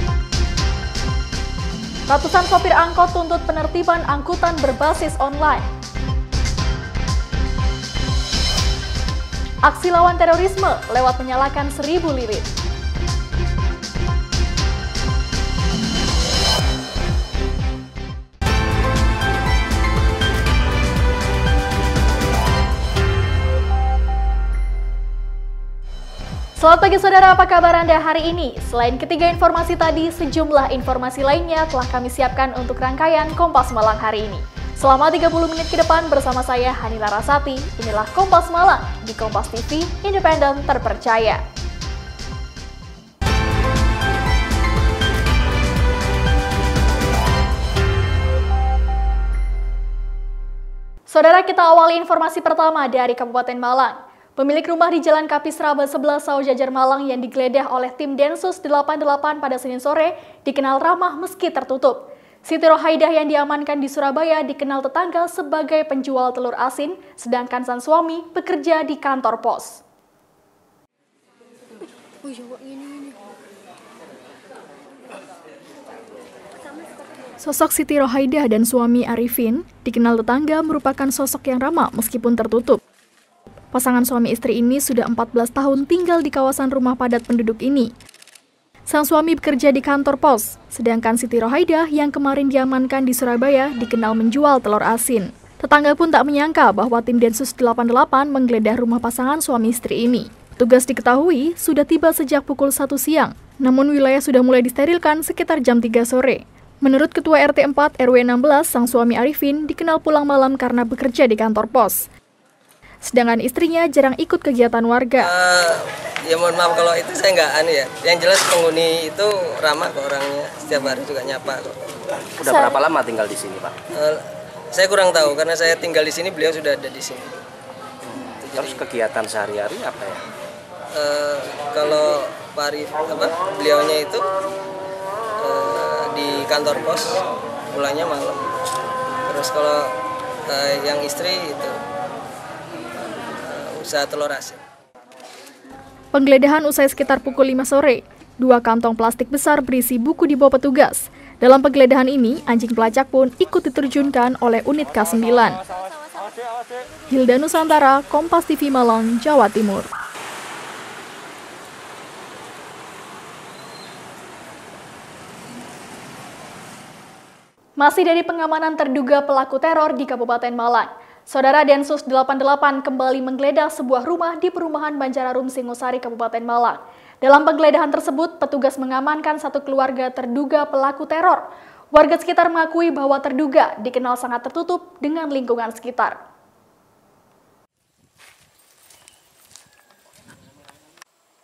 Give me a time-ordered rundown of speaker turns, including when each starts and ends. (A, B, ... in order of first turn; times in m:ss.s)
0:02.1-0:05.6 A
0:09.6-0:12.5 A
0:26.6-0:41.4 A
0:51.1-1:09.8 A
1:17.4-1:22.8 A
1:23.7-1:27.9 A
1:28.9-1:52.0 A
1:53.1-1:55.3 A
1:55.2-2:01.7 B
2:02.4-2:03.7 C
2:02.4-2:02.8 A
2:04.0-2:07.4 B
2:08.4-2:08.8 B
2:08.6-2:10.2 C
2:11.0-2:14.2 B
2:15.4-2:17.2 B
2:17.7-2:18.6 B
2:19.3-2:19.9 B
2:20.5-2:21.8 B
2:23.0-2:24.6 B
2:26.1-2:35.6 A
2:37.1-2:39.9 A
2:47.8-3:06.2 A